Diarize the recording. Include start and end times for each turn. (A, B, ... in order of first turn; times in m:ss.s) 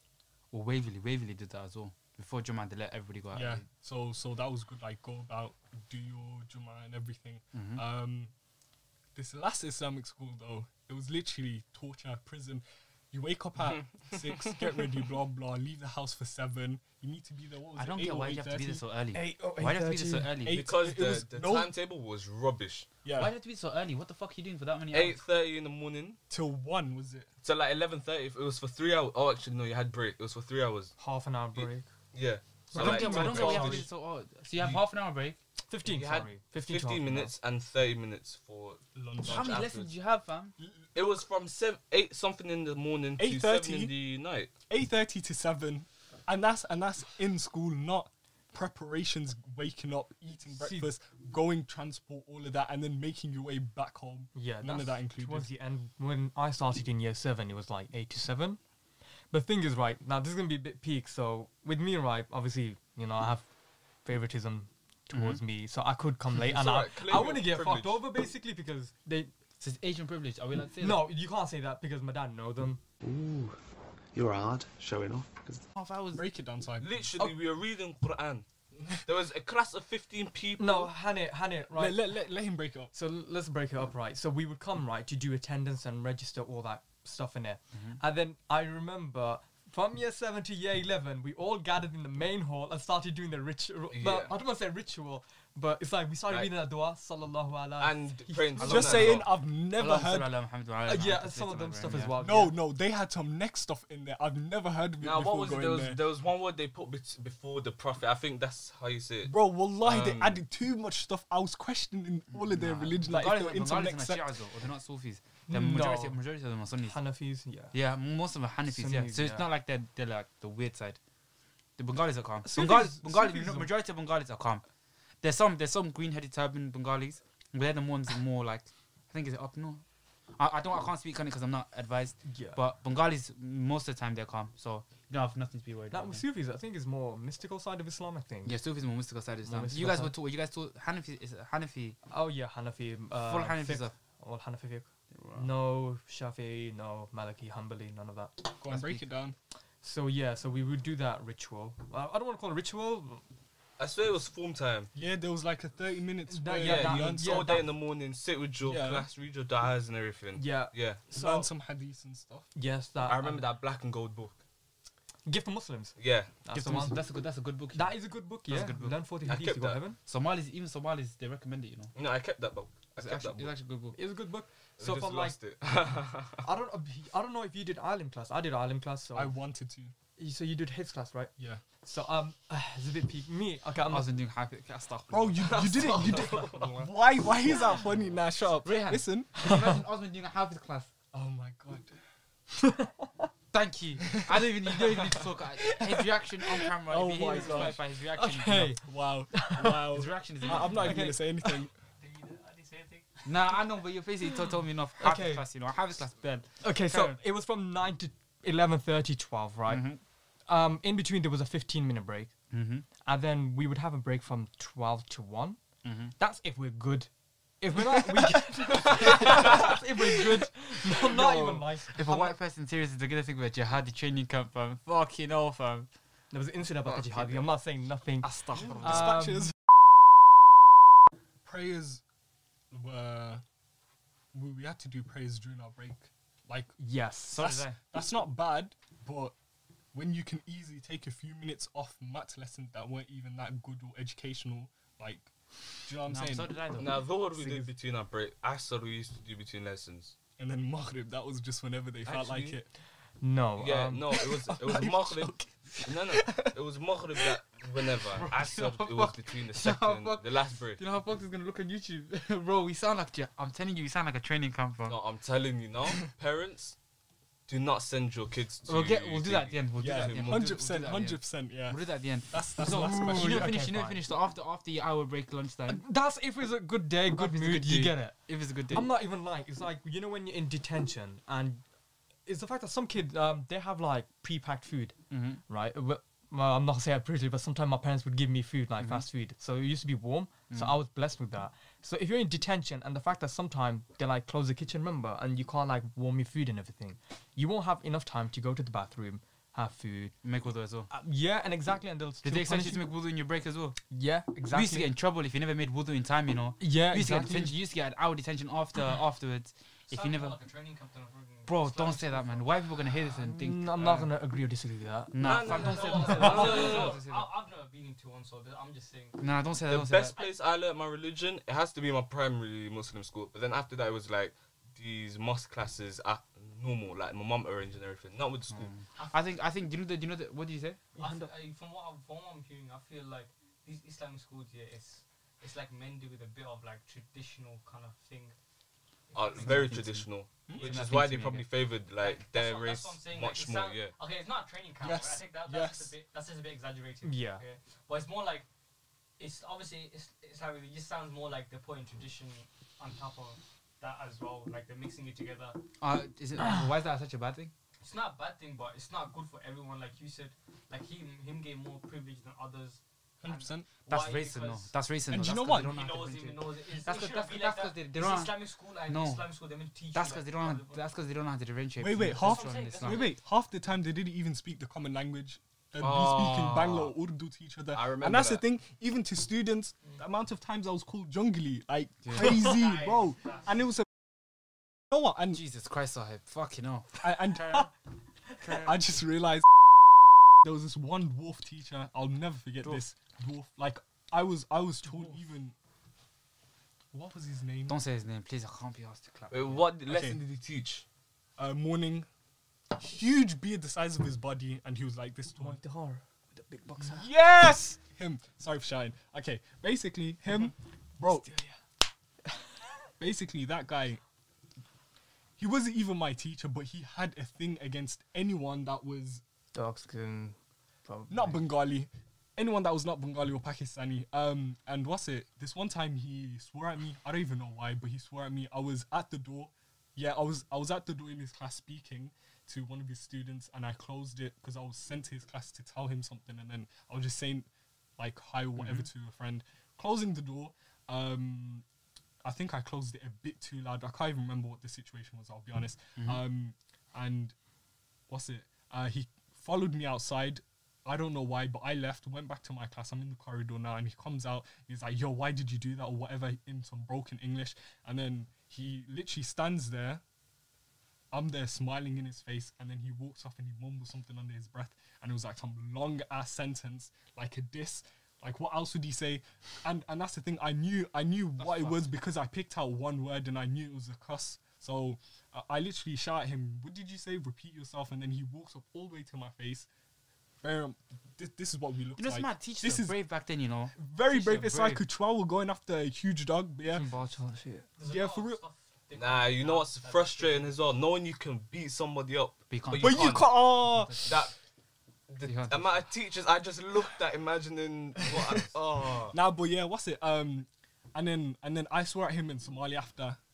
0:00.5-0:03.6 A
0:03.3-0:08.3 B
0:07.5-0:07.8 A
0:09.2-0:18.8 B
0:17.8-0:20.6 A
0:19.1-0:20.4 C
0:20.4-0:21.7 B
0:20.5-0:22.9 D
0:23.0-0:23.3 B
0:23.1-0:25.2 A
0:24.9-0:26.2 D
0:26.3-0:27.3 B
0:27.4-0:30.9 D
0:31.0-0:31.9 C
0:31.6-0:33.9 D
0:32.7-0:35.4 A
0:32.8-0:33.8 C
0:33.0-0:33.4 B
0:35.7-0:37.3 C
0:35.8-0:39.9 D
0:39.0-0:39.6 B
0:39.2-0:40.6 A
0:41.0-0:44.5 D
0:43.2-0:43.9 B
0:44.7-0:55.5 B
0:50.5-0:50.9 C
0:54.4-0:58.6 C
0:59.3-1:03.4 C
1:04.0-1:09.3 C
1:05.1-1:05.4 A
1:06.4-1:08.0 D
1:09.6-1:11.1 A
1:10.8-1:12.8 C
1:13.0-1:13.6 E
1:14.1-1:15.6 E
1:15.8-1:16.2 A
1:16.1-1:17.0 B
1:16.8-1:18.4 D
1:19.0-1:20.9 D
1:20.6-1:22.1 C
1:21.8-1:22.9 B
1:22.9-1:39.2 C
1:33.9-1:34.4 D
1:36.3-1:36.5 D
1:37.8-1:39.3 D
1:38.6-1:40.3 B
1:38.8-1:39.1 A
1:39.7-1:42.2 A
1:40.9-1:42.6 C
1:42.2-1:46.0 B
1:45.0-1:50.4 D
1:49.3-1:54.3 B
1:52.4-1:57.0 A
1:55.5-1:56.2 C
1:56.8-1:57.8 C
1:57.7-2:01.0 A
1:58.7-1:59.5 C
2:01.8-2:04.6 A
2:02.4-2:03.7 C
2:05.2-2:09.8 A
2:10.4-2:16.2 A
2:12.2-2:12.6 C
2:15.9-2:18.6 C
2:18.4-2:22.0 A
2:19.4-2:20.2 C
2:22.1-2:28.6 C
2:23.2-2:23.9 A
2:25.2-2:25.5 A
2:28.6-2:29.4 B
2:28.7-2:29.0 A
2:29.8-2:33.2 C
2:33.8-2:34.9 D
2:35.0-2:37.6 B
2:36.3-2:37.7 C
2:36.6-2:41.0 D
2:38.6-2:39.1 B
2:40.4-2:41.5 C
2:41.1-2:42.5 B
2:42.6-2:43.5 C
2:43.1-2:44.4 D
2:45.2-2:47.0 C
2:46.0-2:46.3 D
2:46.5-2:49.0 A
2:47.7-2:50.0 C
2:49.3-2:49.8 D
2:50.1-2:51.9 A
2:52.0-2:53.5 D
2:53.0-2:54.0 A
2:53.9-2:55.4 C
2:54.8-2:56.4 D
2:56.4-2:59.3 C
2:59.1-2:59.9 B
3:00.2-3:04.1 C
3:03.9-3:06.8 A
3:05.1-3:09.3 B
3:05.4-3:06.8 D
3:08.6-3:10.9 A
3:09.4-3:09.7 C
3:11.1-3:11.9 B
3:12.6-3:13.3 C
3:13.5-3:18.8 A
3:16.8-3:17.8 B
3:17.3-3:19.9 C
3:18.8-3:21.7 B
3:19.9-3:21.0 A
3:20.5-3:21.7 C
3:22.0-3:23.2 F
3:23.2-3:27.2 A
3:25.0-3:25.4 C
3:26.6-3:29.9 C
3:29.7-3:30.0 A
3:30.5-3:32.4 C
3:32.5-3:32.9 A
3:33.0-3:35.6 C
3:35.8-3:36.1 A
3:36.2-3:37.1 C
3:37.6-3:42.2 C
3:38.9-3:39.2 A
3:41.2-3:45.9 A
3:46.3-3:49.5 C
3:48.2-3:49.1 A
3:48.6-3:49.6 B
3:51.4-3:52.0 B
3:52.7-3:53.4 B
3:54.3-3:56.7 B
3:56.8-3:57.6 C
3:57.3-3:57.8 A
3:57.4-3:59.3 B
3:59.9-4:05.3 B
4:05.8-4:06.6 B
4:06.1-4:07.7 A
4:06.8-4:10.2 D
4:10.4-4:12.7 B
4:12.0-4:12.6 D
4:13.2-4:14.3 C
4:13.6-4:15.3 D
4:14.2-4:16.6 B
4:15.8-4:20.8 D
4:18.2-4:25.0 A
4:24.9-4:26.8 D
4:27.5-4:30.5 D
4:28.7-4:35.8 A
4:29.8-4:33.5 B
4:32.6-4:34.0 C
4:35.7-4:41.6 C
4:37.1-4:38.9 A
4:42.2-5:00.2 C
4:45.1-4:45.4 A
4:50.5-4:50.8 A
5:00.2-5:00.9 A
5:00.9-5:02.9 C
5:02.2-5:03.8 A
5:03.9-5:04.9 C
5:04.5-5:10.4 A
5:06.6-5:07.6 C
5:09.9-5:12.6 F
5:11.5-5:14.1 A
5:13.2-5:15.2 C
5:15.1-5:17.3 A
5:15.2-5:17.0 D
5:15.2-5:19.2 F
5:15.8-5:16.6 C
5:19.2-5:20.1 A
5:19.7-5:28.8 D
5:28.5-5:30.8 A
5:29.0-5:29.2 F
5:31.0-5:38.4 F
5:31.0-5:31.3 C
5:39.1-5:39.7 F
5:39.1-5:44.0 D
5:39.4-5:41.5 A
5:41.9-5:48.5 F
5:44.8-5:45.9 B
5:47.0-5:47.4 C
5:49.2-5:55.6 F
5:55.8-5:57.5 A
5:57.8-6:04.7 F
6:03.2-6:03.7 B
6:03.9-6:09.2 A
6:05.1-6:05.8 B
6:05.5-6:10.8 F
6:09.9-6:13.1 A
6:11.8-6:23.9 B
6:12.1-6:13.2 F
6:15.8-6:16.9 D
6:17.7-6:18.4 D
6:22.0-6:22.4 A
6:22.4-6:23.5 F
6:24.9-6:25.4 B
6:25.3-6:27.7 A
6:27.0-6:27.7 B
6:28.4-6:28.8 A
6:28.5-6:29.5 B
6:30.4-6:35.5 B
6:36.9-6:37.8 B
6:37.7-6:39.7 A
6:39.3-6:40.8 D
6:39.9-6:40.2 B
6:41.4-6:42.1 B
6:42.8-6:45.6 B
6:45.4-6:47.1 C
6:46.8-6:51.3 B
6:51.0-6:51.6 C
6:53.0-6:54.0 B
6:55.4-6:59.2 B
6:59.5-7:01.5 C
7:01.1-7:21.6 B
7:18.6-7:18.9 A
7:22.2-7:27.4 B
7:26.0-7:26.2 A
7:28.1-7:40.0 B
7:41.1-7:59.7 B
7:51.4-7:51.9 A
8:00.4-8:03.0 B
8:02.0-8:04.8 A
8:03.8-8:06.9 B
8:06.7-8:07.7 C
8:07.8-8:10.6 F
8:07.8-8:08.4 B
8:09.0-8:13.4 D
8:12.5-8:13.3 A
8:12.7-8:14.2 B
8:14.0-8:14.3 D
8:15.1-8:19.2 D
8:15.2-8:15.9 A
8:19.1-8:23.2 B